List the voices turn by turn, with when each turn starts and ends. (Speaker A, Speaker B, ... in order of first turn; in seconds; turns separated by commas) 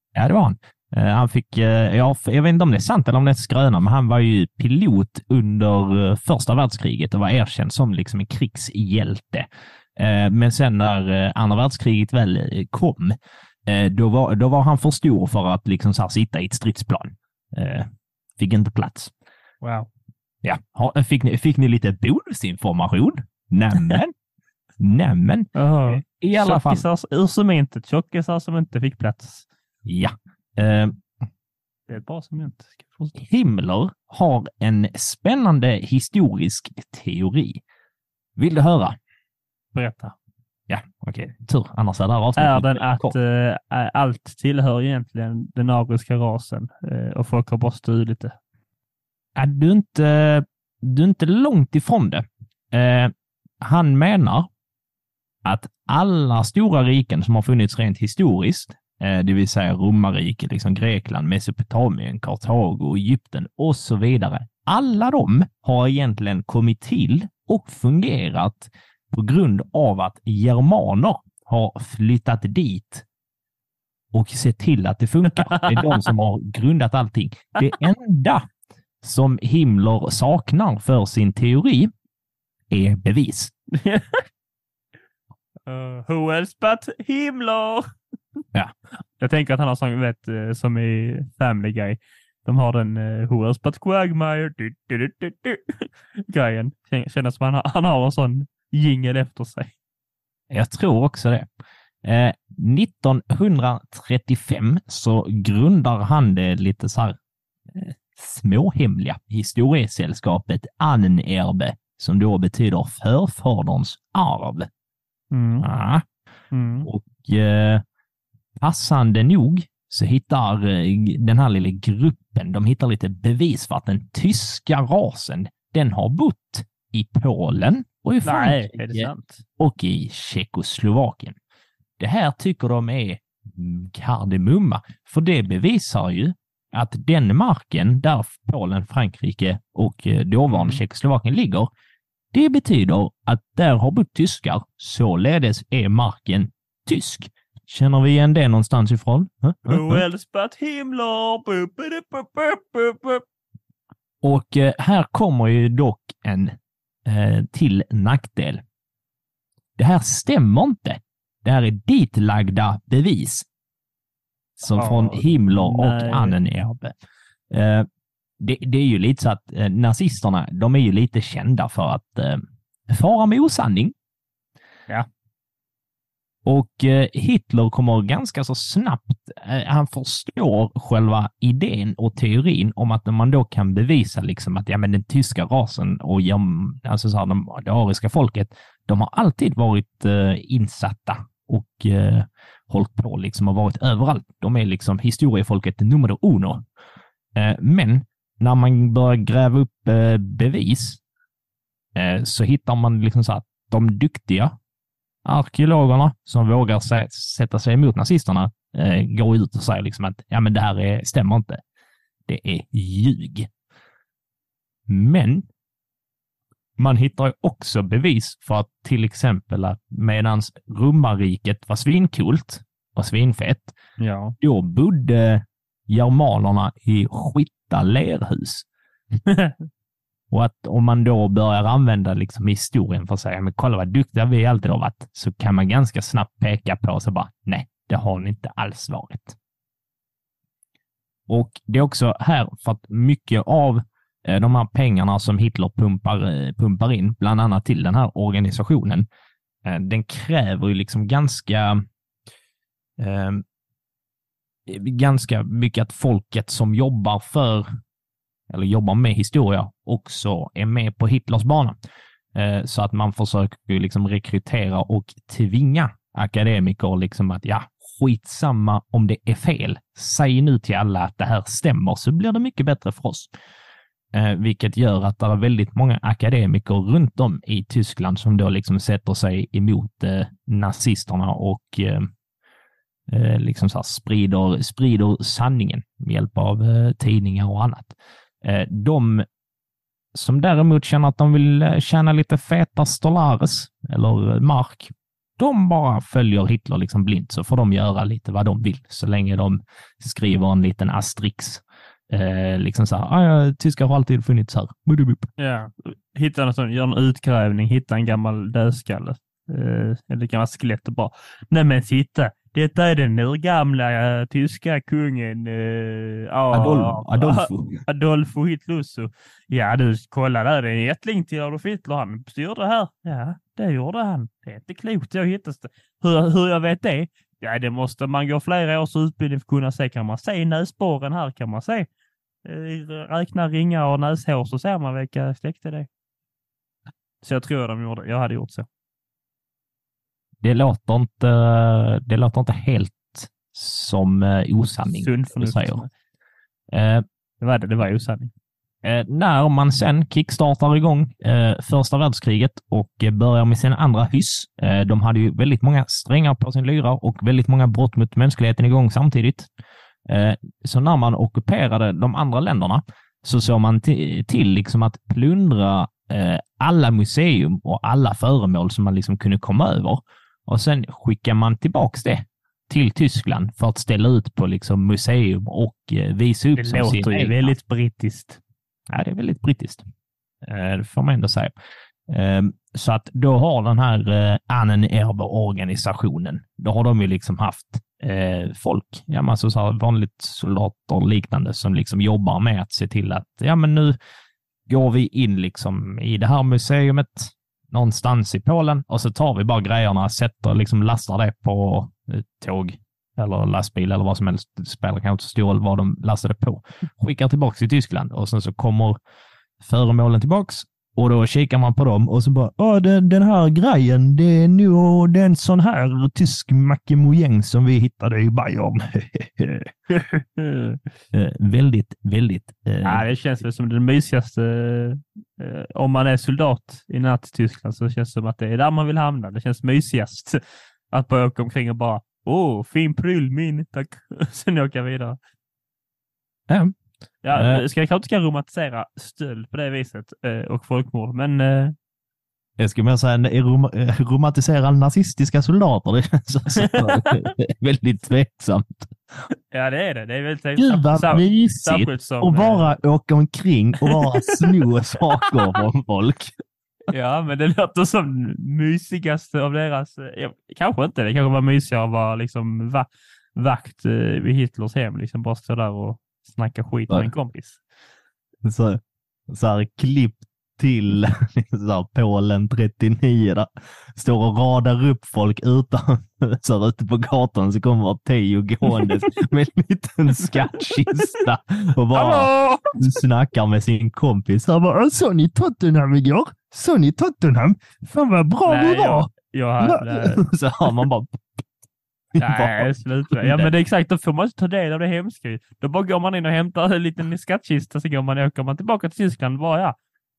Speaker A: 0.1-19.1, Speaker B: 19.6-19.9, Speaker A: 20.4-24.1, Speaker A: 24.8-26.8, Speaker B: 25.5-29.4, Speaker A: 29.9-31.0, Speaker B: 31.9-33.1, Speaker A: 33.1-37.6, Speaker A: 38.4-39.0, Speaker B: 39.7-40.1, Speaker A: 40.7-43.1, Speaker B: 42.4-48.4, Speaker A: 49.4-54.5, Speaker A: 55.4-73.0, Speaker A: 74.1-78.5, Speaker B: 75.3-76.0, Speaker A: 79.0-81.9, Speaker A: 82.7-83.5, Speaker B: 83.7-84.2, Speaker B: 85.7-87.9, Speaker B: 89.2-99.7, Speaker A: 100.5-101.5, Speaker A: 102.0-107.2, Speaker A: 107.7-114.7, Speaker B: 115.3-115.7, Speaker A: 115.6-116.0, Speaker B: 116.5-116.9, Speaker A: 116.8-117.8, Speaker A: 118.6-131.4, Speaker B: 128.2-129.4, Speaker A: 132.0-141.7, Speaker B: 140.5-140.8, Speaker A: 142.3-150.0, Speaker B: 149.7-153.2, Speaker A: 154.2-158.6, Speaker A: 159.8-163.5, Speaker A: 164.6-166.9, Speaker B: 164.7-166.4, Speaker A: 167.5-167.9, Speaker A: 168.4-173.9, Speaker A: 176.4-196.6, Speaker A: 197.3-201.0, Speaker A: 201.9-204.5, Speaker A: 205.2-211.6, Speaker A: 212.3-213.5, Speaker A: 214.9-215.4, Speaker A: 216.8-223.7, Speaker B: 224.0-224.3, Speaker A: 224.4-228.7, Speaker B: 229.2-229.6, Speaker A: 230.3-239.3, Speaker A: 241.3-249.1, Speaker A: 249.6-251.8, Speaker A: 253.0-253.4, Speaker A: 254.7-257.6, Speaker A: 258.5-261.8, Speaker A: 262.3-273.3, Speaker A: 274.1-282.1, Speaker A: 283.1-289.2, Speaker A: 290.1-305.3, Speaker B: 305.4-331.9, Speaker A: 316.5-317.8, Speaker B: 332.4-335.9, Speaker B: 337.2-338.6, Speaker A: 340.4-345.8, Speaker B: 344.9-345.9, Speaker A: 346.7-347.0, Speaker B: 347.4-348.3, Speaker A: 348.8-359.5, Speaker A: 360.1-377.5, Speaker B: 376.6-378.4, Speaker A: 378.9-379.8, Speaker A: 380.4-381.5, Speaker A: 382.1-393.9, Speaker A: 394.7-409.0, Speaker A: 409.6-419.7, Speaker B: 419.9-420.8, Speaker A: 421.1-423.1, Speaker B: 422.8-435.2, Speaker A: 436.5-436.7, Speaker B: 437.2-441.7, Speaker A: 437.3-437.6, Speaker A: 442.6-448.9, Speaker B: 446.6-447.2, Speaker B: 449.5-452.7, Speaker A: 450.6-456.3, Speaker B: 453.8-454.4, Speaker B: 455.2-455.6, Speaker B: 456.9-467.6, Speaker A: 468.4-484.6, Speaker B: 481.9-482.8, Speaker C: 484.5-489.1, Speaker B: 488.4-490.2, Speaker A: 490.0-491.4, Speaker A: 492.1-493.5, Speaker B: 492.2-499.8